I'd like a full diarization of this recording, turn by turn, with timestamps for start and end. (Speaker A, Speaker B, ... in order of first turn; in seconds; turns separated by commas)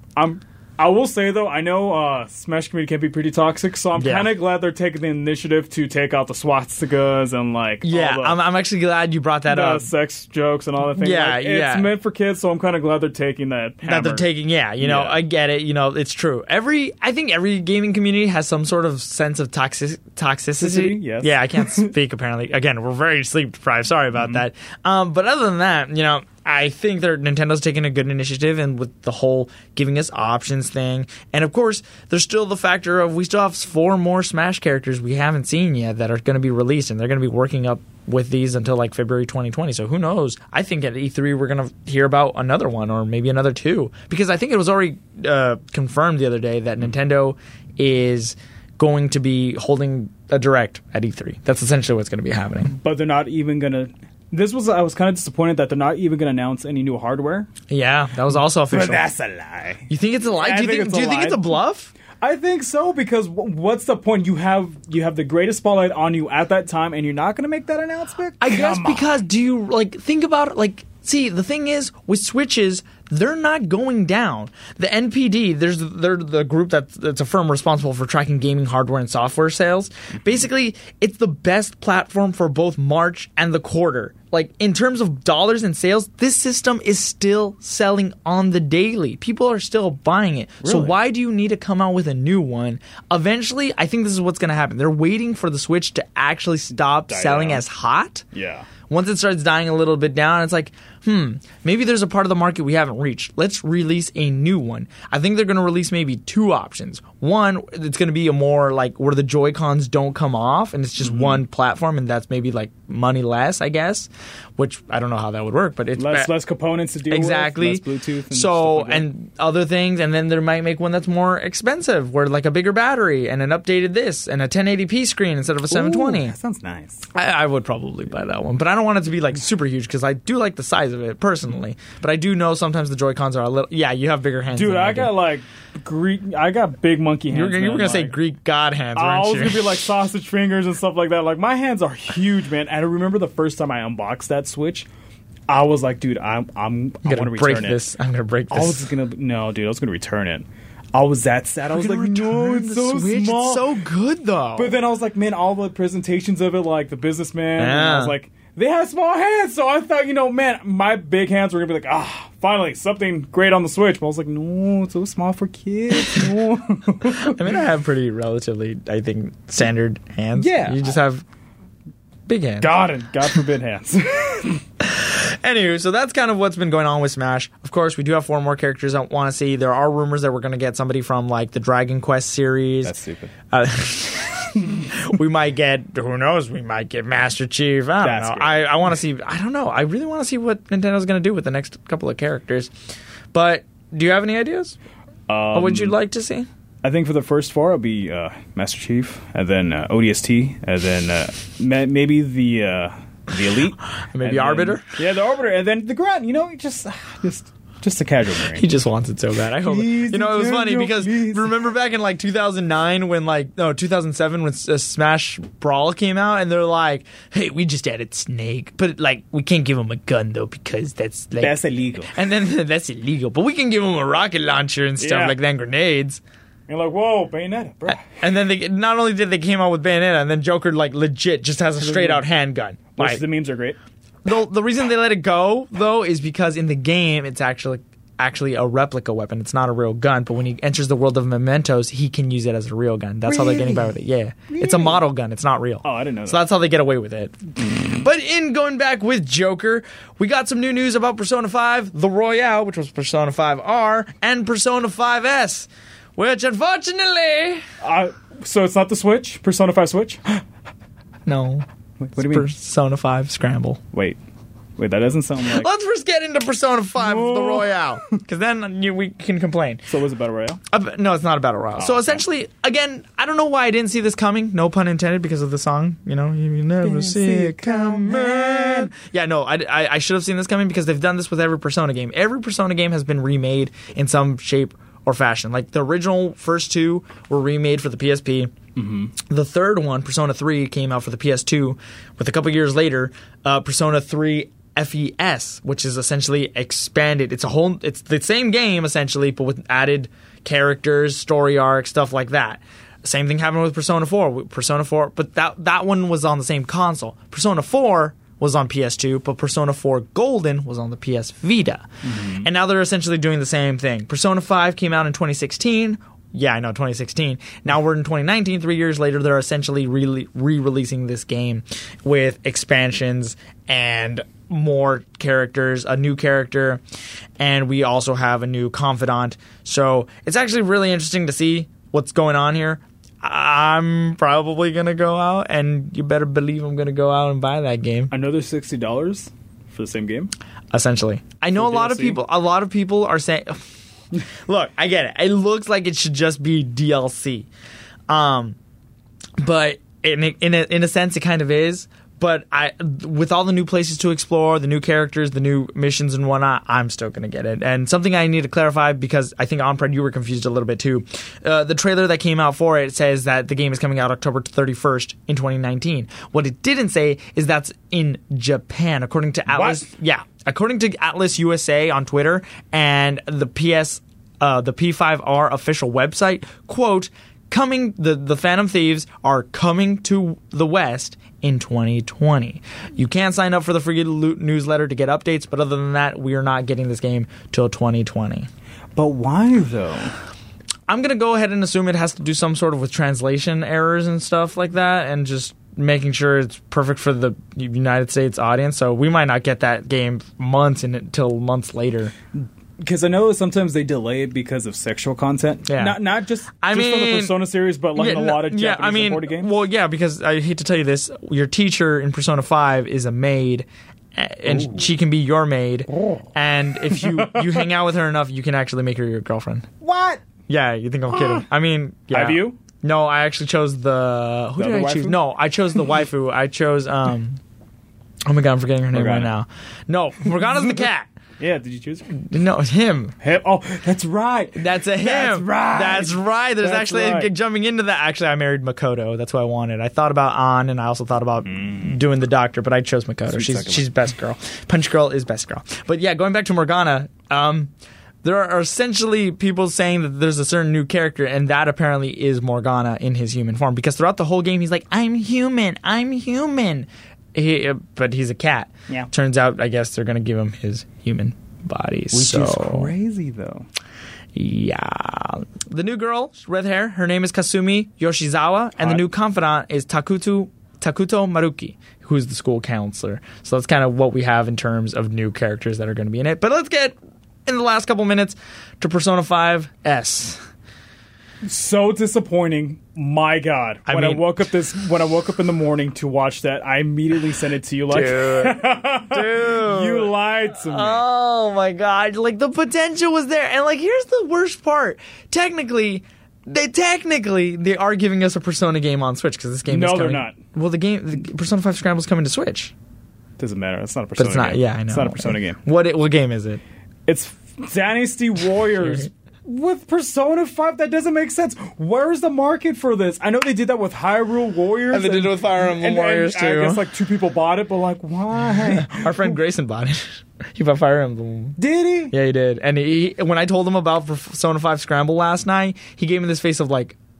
Speaker A: 0.1-8.4, Speaker B: 4.0-4.4, Speaker B: 7.8-9.9, Speaker A: 9.5-15.2, Speaker B: 10.8-12.0, Speaker B: 13.8-52.8, Speaker A: 20.6-21.9, Speaker A: 24.2-24.4, Speaker A: 52.7-57.5, Speaker B: 57.7-59.1, Speaker A: 58.7-61.6, Speaker B: 59.9-61.9, Speaker A: 62.2-69.2, Speaker B: 68.4-98.2, Speaker A: 90.6-91.0, Speaker A: 97.1-97.6, Speaker A: 98.3-98.7, Speaker B: 98.9-116.3, Speaker A: 111.0-111.4, Speaker A: 116.0-119.1, Speaker B: 117.1-126.3, Speaker A: 125.7-127.1, Speaker B: 127.1-135.2, Speaker A: 134.5-138.2, Speaker B: 137.3-139.9, Speaker A: 138.9-144.9, Speaker A: 145.5-147.9, Speaker B: 147.0-148.9, Speaker A: 148.5-153.8, Speaker B: 151.7-154.8, Speaker A: 154.6-167.6, Speaker B: 157.6-158.2, Speaker B: 166.0-166.3, Speaker B: 167.1-171.2, Speaker A: 170.4-171.0, Speaker B: 172.3-172.8, Speaker A: 172.6-174.6, Speaker B: 174.8-182.9, Speaker A: 182.8-183.3, Speaker B: 183.5-192.7, Speaker A: 188.0-189.0, Speaker B: 193.3-194.8, Speaker A: 195.3-196.0, Speaker B: 195.5-196.5, Speaker A: 196.8-208.6, Speaker B: 203.9-205.0, Speaker B: 208.5-221.6, Speaker A: 209.5-211.7, Speaker A: 221.4-222.1, Speaker B: 222.1-226.2, Speaker A: 225.0-225.4, Speaker A: 226.7-228.0, Speaker B: 227.9-233.2, Speaker A: 231.8-232.2, Speaker A: 233.0-233.8, Speaker B: 234.2-257.6, Speaker A: 243.2-243.9, Speaker A: 244.5-245.0, Speaker A: 245.8-246.4, Speaker A: 247.6-248.0, Speaker A: 257.8-260.4, Speaker B: 261.2-261.6, Speaker A: 262.0-262.5, Speaker B: 262.2-263.8, Speaker A: 263.9-264.2, Speaker A: 264.8-265.7, Speaker B: 265.5-269.9, Speaker A: 266.9-268.0, Speaker A: 269.9-270.6, Speaker B: 270.7-288.5, Speaker A: 271.8-272.2, Speaker A: 276.8-278.9, Speaker A: 288.8-289.1, Speaker B: 289.3-326.8, Speaker A: 312.0-312.5, Speaker B: 327.4-338.2, Speaker A: 338.1-340.3, Speaker B: 340.7-343.6, Speaker A: 341.6-342.2, Speaker B: 344.5-347.5, Speaker B: 348.1-348.6, Speaker B: 349.4-388.5, Speaker A: 369.5-369.9, Speaker A: 389.0-390.1, Speaker B: 390.9-402.1, Speaker A: 402.8-409.6, Speaker B: 405.7-406.0, Speaker B: 406.6-419.7, Speaker A: 414.4-414.9, Speaker A: 416.9-417.7, Speaker A: 419.8-420.2, Speaker B: 420.5-427.4, Speaker A: 421.1-421.4, Speaker A: 422.1-422.6, Speaker A: 424.6-425.2, Speaker B: 428.3-431.1, Speaker A: 428.9-429.3, Speaker A: 431.4-432.1, Speaker B: 432.1-433.1, Speaker A: 433.2-437.3, Speaker B: 434.6-447.7, Speaker A: 441.5-441.9, Speaker A: 443.3-443.9, Speaker B: 448.2-462.9, Speaker A: 462.1-463.7, Speaker B: 464.3-480.4, Speaker A: 468.8-469.0, Speaker A: 481.4-491.0, Speaker B: 483.9-484.3, Speaker B: 487.9-502.7, Speaker A: 499.7-500.4, Speaker A: 503.4-505.6, Speaker B: 504.2-506.6, Speaker A: 507.1-519.4, Speaker B: 514.9-516.9, Speaker B: 518.6-527.0, Speaker A: 521.6-522.1